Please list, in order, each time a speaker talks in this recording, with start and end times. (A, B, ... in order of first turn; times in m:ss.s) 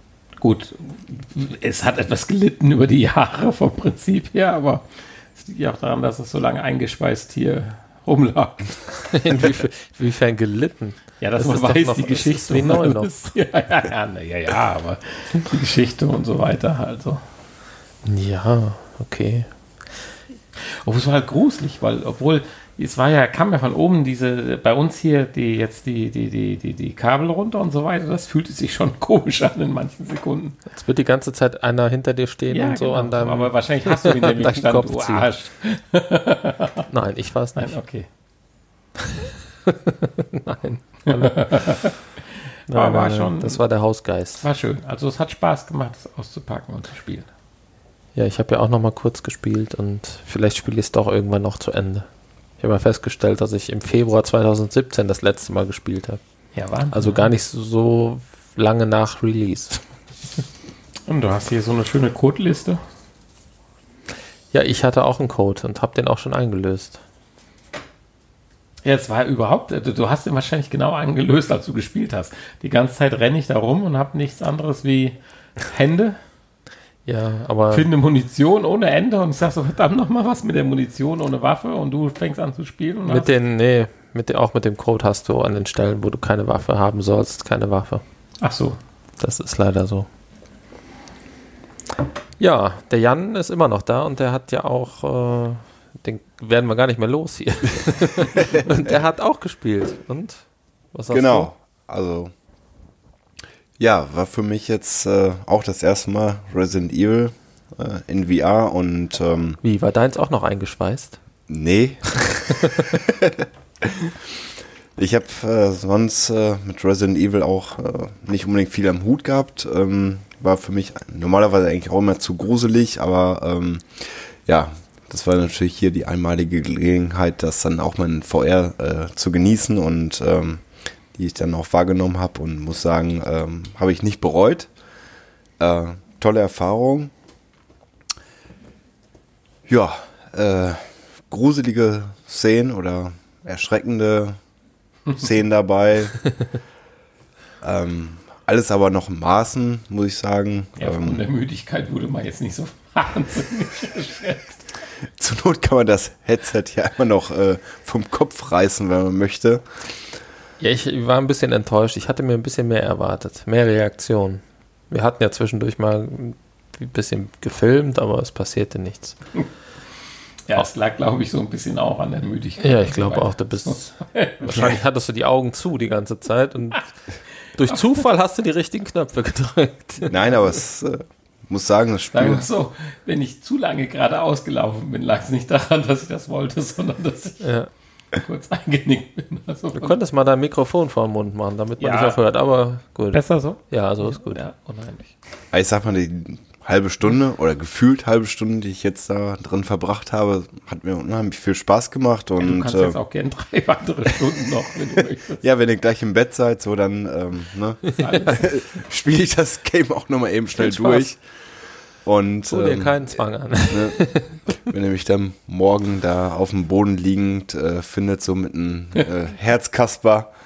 0:00.4-0:08.9 A
0:09.0-0:13.3 B
0:11.2-0:17.2 A
0:18.0-0:19.5 B
0:20.8-0:30.6 A
0:30.7-0:35.3 B
0:32.5-0:36.8 A
0:36.9-0:37.8 B
0:37.6-0:38.1 A
0:39.7-0:41.7 B
0:41.0-0:43.6 A
0:42.7-0:44.4 B
0:44.4-0:47.3 A
0:48.1-0:52.1 B
0:52.6-0:56.2 B
0:56.5-0:57.3 A
0:56.9-0:59.8 B
1:01.1-1:02.8 A
1:04.5-1:07.0 B
1:08.8-1:16.2 A
1:17.0-1:17.9 B
1:17.7-1:23.3 A
1:23.0-1:28.0 B
1:28.4-1:28.8 A
1:29.2-1:30.1 B
1:32.4-1:40.4 B
1:40.9-1:41.5 B
1:41.1-1:42.3 C
1:43.8-1:49.6 C
1:49.6-1:51.2 B
1:51.5-1:54.2 C
1:55.0-2:10.6 C
2:11.1-2:14.7 C
2:15.6-2:17.1 C
2:19.7-2:24.4 C
2:25.1-2:26.2 C
2:27.6-2:31.2 C
2:30.8-2:34.6 A
2:35.2-2:39.6 C
2:40.6-2:49.2 B
2:50.5-2:54.8 A
2:52.6-2:56.9 B
2:57.6-3:00.2 B
3:00.1-3:02.5 C
3:02.1-3:07.5 A
3:07.4-3:07.7 B
3:08.1-3:10.0 A
3:09.8-3:14.4 B
3:11.8-3:12.2 A
3:13.1-3:15.1 A
3:15.5-3:23.0 C
3:22.4-3:25.4 A
3:25.4-3:31.2 C
3:27.9-3:28.5 A
3:30.6-3:31.0 B
3:32.0-3:33.2 C
3:32.5-3:34.4 B
3:33.7-3:34.0 C
3:34.6-3:40.3 C